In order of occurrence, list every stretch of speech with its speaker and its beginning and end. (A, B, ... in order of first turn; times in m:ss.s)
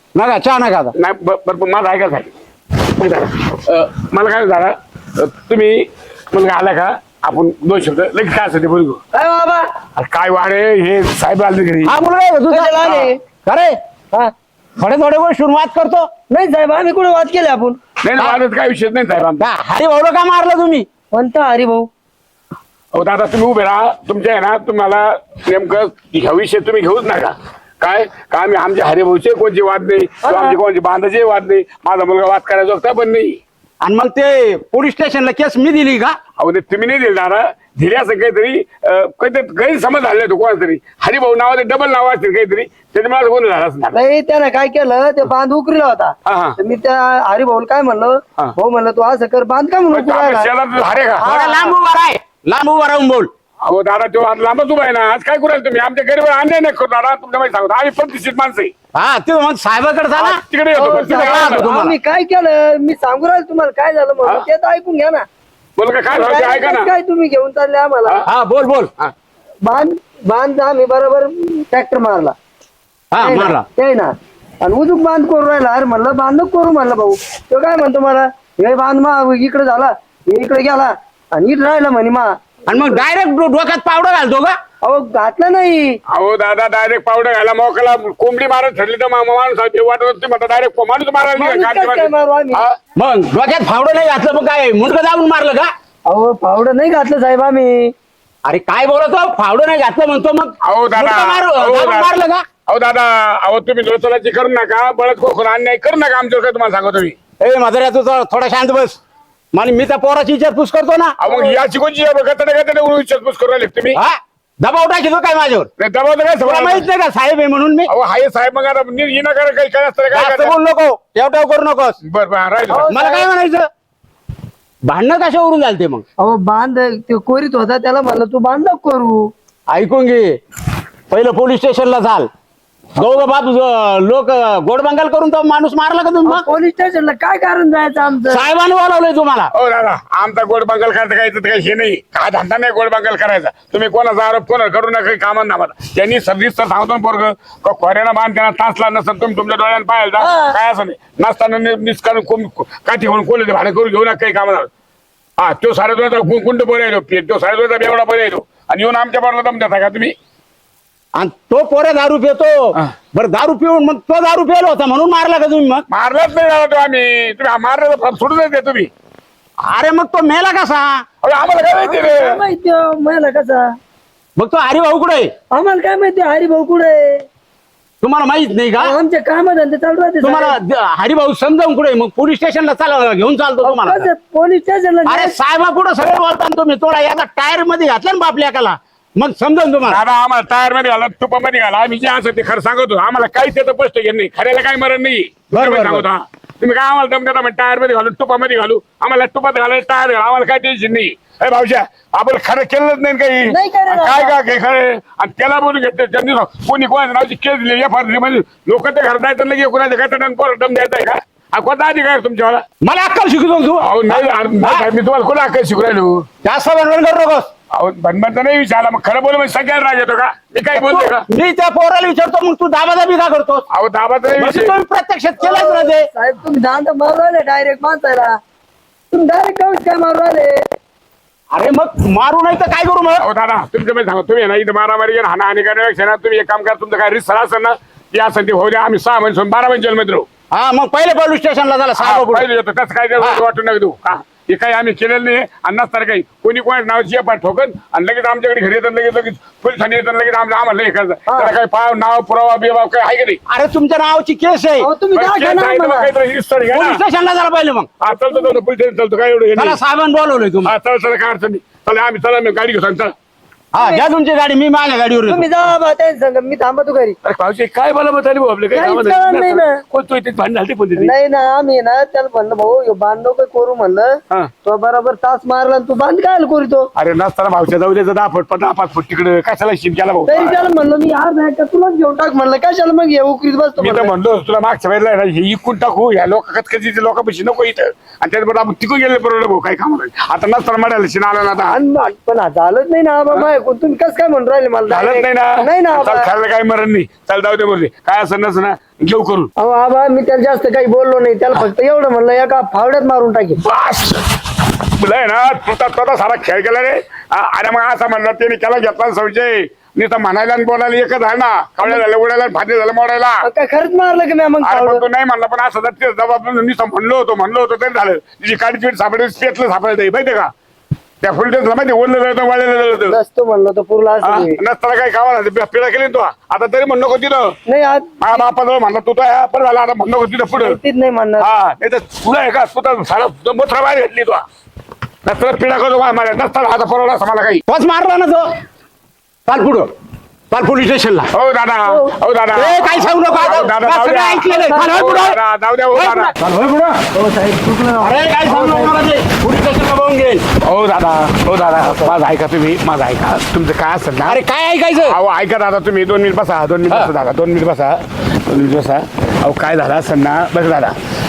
0:00.1-0:01.0 A
0:01.0-0:02.3 B
0:02.9-0:09.0 B
0:09.1-0:09.7 C
0:10.0-0:12.0 B
0:11.8-0:13.8 A
0:12.5-0:13.2 C
0:14.8-0:16.1 A
0:16.3-0:17.8 C
0:18.0-0:19.5 B
0:19.4-0:20.9 A
0:21.1-0:21.9 C
0:22.9-0:33.4 B
0:30.2-0:30.6 C
0:33.8-0:36.2 A
0:36.4-0:44.0 B
0:43.9-0:50.5 C
0:46.3-0:46.6 B
0:49.9-0:51.3 B
0:51.2-0:51.8 C
0:51.2-0:53.3 A
0:53.6-0:58.7 B
0:58.9-1:00.4 A
1:00.2-1:01.8 B
1:00.7-1:05.2 C
1:01.0-1:02.0 A
1:05.8-1:06.9 B
1:06.1-1:08.2 C
1:08.3-1:08.9 A
1:09.6-1:12.3 C
1:13.1-1:13.7 A
1:13.2-1:14.1 C
1:14.6-1:22.8 C
1:22.7-1:24.6 A
1:24.8-1:26.0 C
1:26.1-1:32.8 B
1:31.3-1:32.7 C
1:33.0-1:35.7 A
1:36.1-1:37.9 C
1:38.4-1:42.4 A
1:40.6-1:42.2 B
1:42.7-1:47.2 B
1:47.4-1:49.0 A
1:49.5-1:51.2 A
1:51.2-1:54.0 B
1:51.3-1:51.5 C
1:53.9-1:55.7 A
1:55.8-1:56.9 B
1:56.4-1:57.9 A
1:57.9-2:00.6 B
2:00.1-2:02.0 A
2:02.0-2:02.9 B
2:02.7-2:03.3 C
2:02.8-2:03.7 A
2:04.9-2:06.0 A
2:06.2-2:09.3 C
2:09.7-2:10.4 A
2:11.1-2:12.3 A
2:13.0-2:16.5 A
2:16.2-2:18.5 C
2:18.3-2:19.5 A
2:19.5-2:34.7 B
2:30.2-2:30.6 C
2:35.4-2:40.2 B
2:41.2-2:45.9 A
2:45.9-2:48.9 B
2:49.7-2:51.0 A
2:51.2-2:52.4 B
2:51.8-2:53.7 C
2:54.4-2:55.3 A
2:55.5-2:57.2 C
2:58.0-2:59.0 A
2:58.8-3:00.6 C
3:00.2-3:04.1 A
3:03.6-3:05.4 C
3:05.1-3:10.0 A
3:09.9-3:32.6 B
3:15.5-3:16.1 A
3:23.5-3:24.4 C
3:32.8-3:34.8 A
3:33.8-3:36.3 B
3:36.4-3:37.5 A
3:37.7-3:41.2 B
3:40.7-3:43.6 A
3:43.7-3:44.8 B
3:44.4-3:46.1 A
3:45.4-3:48.3 C
3:49.1-3:50.6 C
3:51.5-3:53.3 A
3:53.2-4:00.3 B
4:00.5-4:02.5 A
4:02.0-4:13.4 B
4:11.3-4:11.5 C
4:13.5-4:14.9 A
4:14.8-4:16.1 C
4:15.2-4:17.0 B
4:16.7-4:17.9 A
4:18.0-4:19.8 B
4:19.6-4:20.7 A
4:20.7-4:23.1 B
4:23.7-4:25.5 A
4:23.8-4:24.1 C
4:25.3-4:27.2 C
4:27.2-4:31.1 B
4:28.7-4:29.8 C
4:31.0-4:36.9 C
4:37.0-4:40.6 B
4:40.3-4:44.1 C
4:43.8-4:51.8 B
4:51.7-4:56.3 C
4:54.9-4:59.5 B
4:59.6-5:03.6 C
5:03.6-5:04.2 B
5:05.0-5:13.4 B
5:13.4-5:15.0 C
5:14.6-5:20.5 B
5:21.2-5:23.2 B
5:23.0-5:24.6 C
5:24.2-5:27.6 B
5:27.7-5:28.4 C
5:28.2-5:30.8 B
5:30.5-5:31.5 C
5:31.4-5:34.4 B
5:35.2-5:37.6 B
5:37.7-5:38.5 A
5:39.5-5:39.9 A
5:40.5-5:41.3 A
5:41.3-5:46.4 B
5:42.5-5:45.4 A
5:44.6-5:45.1 C
5:45.9-5:47.1 A
5:47.1-5:49.0 C
5:48.0-5:50.4 A
5:50.6-5:54.4 B
5:54.2-5:55.2 A
5:55.0-6:01.0 B